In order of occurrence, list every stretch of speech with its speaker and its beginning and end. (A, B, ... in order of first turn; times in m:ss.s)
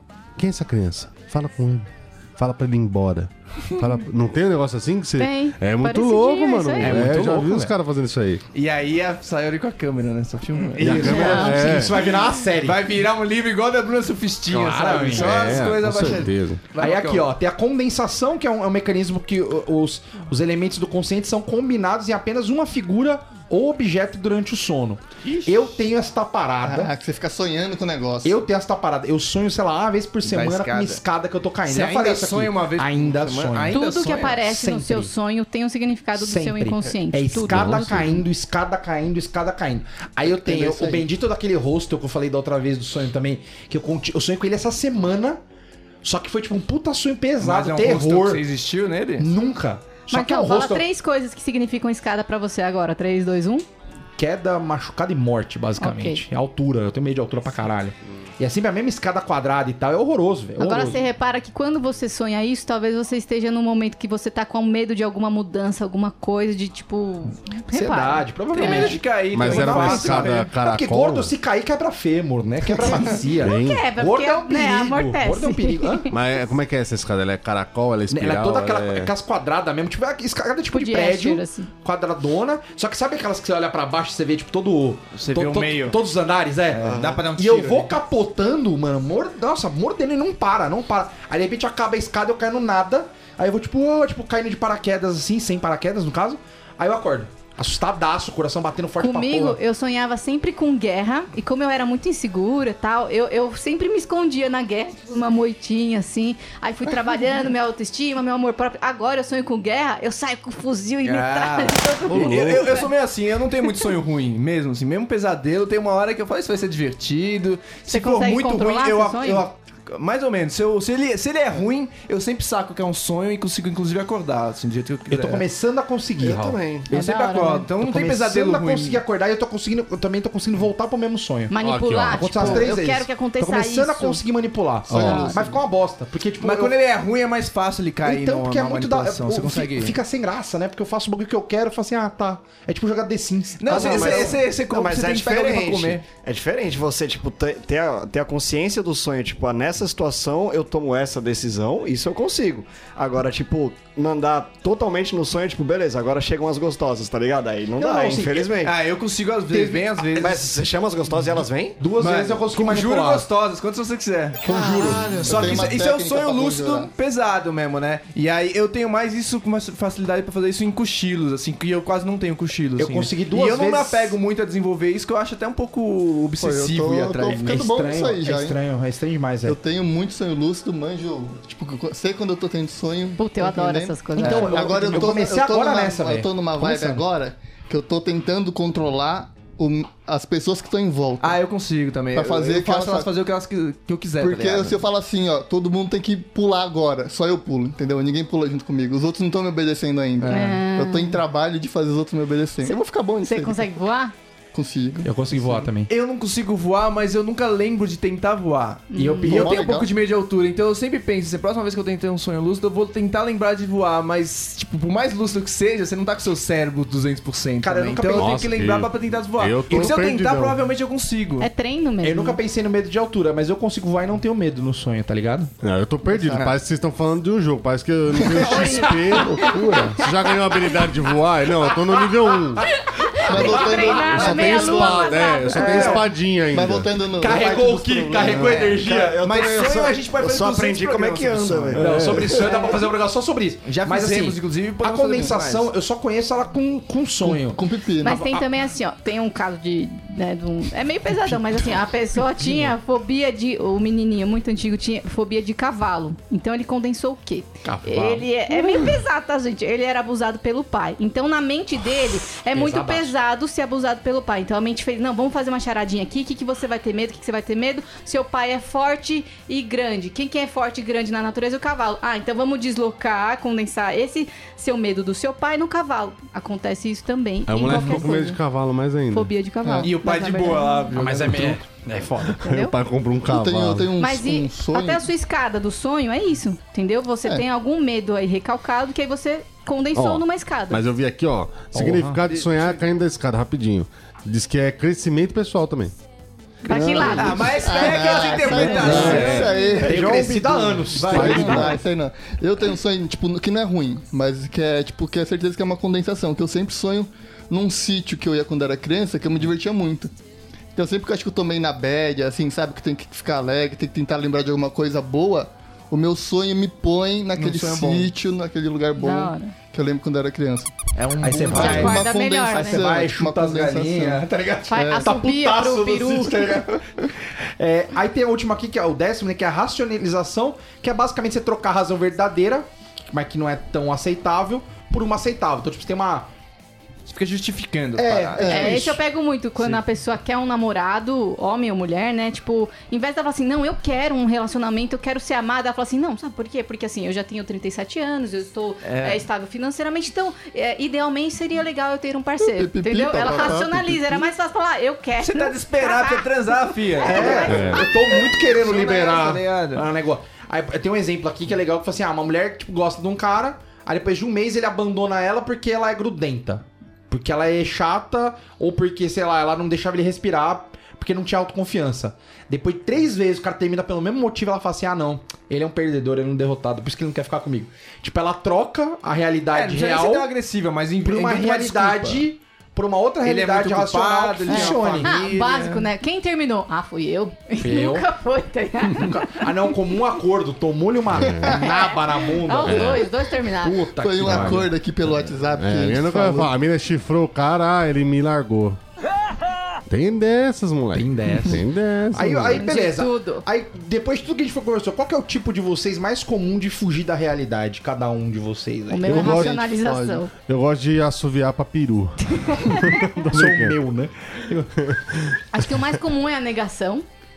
0:00.4-0:08.4 A
0:05.2-0:07.0 B
0:06.8-0:07.7 C
0:08.5-0:17.3 C
0:10.8-0:12.8 D
0:10.8-0:12.0 A
0:11.1-0:11.8 B
0:14.5-0:15.6 D
0:15.1-0:16.6 A
0:16.8-0:26.9 D
0:25.2-0:25.7 C
0:26.6-0:28.4 E
0:28.2-0:35.1 D
0:30.2-0:31.0 C
0:31.6-0:34.4 C
0:33.7-0:37.9 B
0:36.1-0:45.4 D
0:37.5-0:38.2 A
0:40.2-0:41.1 E
0:46.0-0:48.4 D
0:47.4-0:49.3 C
0:49.2-0:50.8 D
0:50.1-0:53.6 B
0:54.2-1:01.0 D
0:55.8-0:56.2 B
1:00.6-1:09.0 B
1:07.7-1:16.1 D
1:08.5-1:10.5 C
1:09.3-1:11.3 A
1:13.4-1:13.8 A
1:13.4-1:16.1 B
1:16.1-1:19.1 A
1:18.1-1:39.6 D
1:20.7-1:21.7 B
1:25.2-1:26.0 C
1:26.7-1:28.0 C
1:26.7-1:27.3 F
1:39.0-1:52.9 B
1:51.0-2:05.4 C
1:52.1-1:52.7 A
1:57.9-1:59.4 B
2:05.1-2:06.6 D
2:06.2-2:06.9 F
2:06.9-2:09.0 C
2:06.9-2:07.7 B
2:07.8-2:11.5 D
2:11.5-2:14.2 B
2:11.6-2:12.6 A
2:12.1-2:16.7 D
2:14.9-2:15.6 E
2:14.9-2:15.4 B
2:16.4-2:20.0 C
2:18.0-2:24.4 D
2:23.6-2:26.0 C
2:23.7-2:38.7 F
2:37.8-2:38.5 D
2:38.6-2:40.5 C
2:39.6-2:41.8 F
2:41.8-2:43.2 D
2:42.0-2:57.6 C
2:44.4-2:45.6 D
2:44.5-2:45.6 F
2:44.5-2:46.9 E
2:52.8-2:54.2 D
2:56.4-2:58.6 E
2:57.2-2:59.6 D
2:59.4-3:11.4 E
3:03.2-3:05.0 B
3:04.1-3:07.0 D
3:11.2-3:14.8 C
3:12.1-3:13.1 E
3:14.2-3:23.7 E
3:20.2-3:20.6 C
3:20.3-3:21.2 B
3:22.6-3:24.1 B
3:24.5-3:25.6 E
3:25.0-3:25.9 D
3:25.9-3:41.5 C
3:28.9-3:29.5 B
3:29.3-3:29.9 E
3:37.6-3:38.4 D
3:38.1-3:40.6 A
3:41.4-3:42.4 B
3:42.0-3:45.5 D
3:45.6-3:52.6 A
3:46.1-3:46.4 E
3:48.2-3:48.5 E
3:48.3-3:49.6 B
3:49.4-3:49.9 E
3:52.6-3:53.7 D
3:52.8-3:56.0 B
3:53.2-3:58.8 E
3:54.0-3:56.9 A
3:55.7-3:56.0 D
3:57.2-3:59.2 D
3:58.0-4:02.2 F
3:59.2-4:02.4 C
4:01.7-4:07.6 D
4:01.8-4:02.4 A
4:03.6-4:05.7 C
4:07.2-4:08.2 E
4:08.0-4:38.4 B
4:08.1-4:08.4 D
4:17.6-4:18.3 D
4:22.5-4:23.1 D
4:37.5-4:39.3 A
4:39.1-4:40.9 B
4:39.6-4:39.9 E
4:39.8-4:41.6 C
4:40.9-4:42.4 D
4:42.3-4:43.9 A
4:42.4-4:42.7 B
4:43.2-4:45.1 E
4:44.0-4:50.8 B
4:49.9-4:55.9 A
4:51.7-4:52.2 D
4:52.3-4:52.8 C
4:56.6-4:59.8 B
4:56.7-4:57.5 A
4:56.7-5:10.1 E
4:56.9-5:01.7 C
4:58.8-4:59.5 A
4:59.8-5:01.8 D
5:01.1-5:01.7 A
5:10.7-5:20.7 E
5:17.3-5:18.1 C
5:19.0-5:19.5 B
5:21.0-5:22.0 C
5:21.2-5:26.8 D
5:21.5-5:25.1 E
5:21.5-5:22.9 B
5:24.7-5:26.6 B
5:27.6-5:36.3 D
5:37.1-5:39.0 C
5:38.0-5:38.8 D
5:38.4-5:39.0 E
5:38.5-5:56.3 B
5:48.8-5:49.2 C
5:52.4-5:54.2 E
5:55.2-5:59.9 C
5:57.0-5:58.3 B
5:57.0-6:20.3 D
5:57.5-5:57.8 A
6:19.5-6:22.2 C
6:21.0-6:25.1 D
6:23.2-6:25.9 C
6:24.5-6:29.4 B
6:27.6-6:28.1 D
6:28.8-6:34.7 D
6:31.1-6:31.6 A
6:31.4-6:33.8 B
6:32.6-6:33.1 A
6:34.0-6:36.5 E
6:34.2-6:38.8 A
6:39.9-6:42.7 A
6:40.9-6:49.7 D
6:42.5-6:43.4 B
6:48.9-6:50.3 B
6:49.0-6:53.8 A
6:52.3-6:52.9 B
6:53.3-6:54.7 D
6:54.8-6:55.2 A
6:55.5-6:57.0 B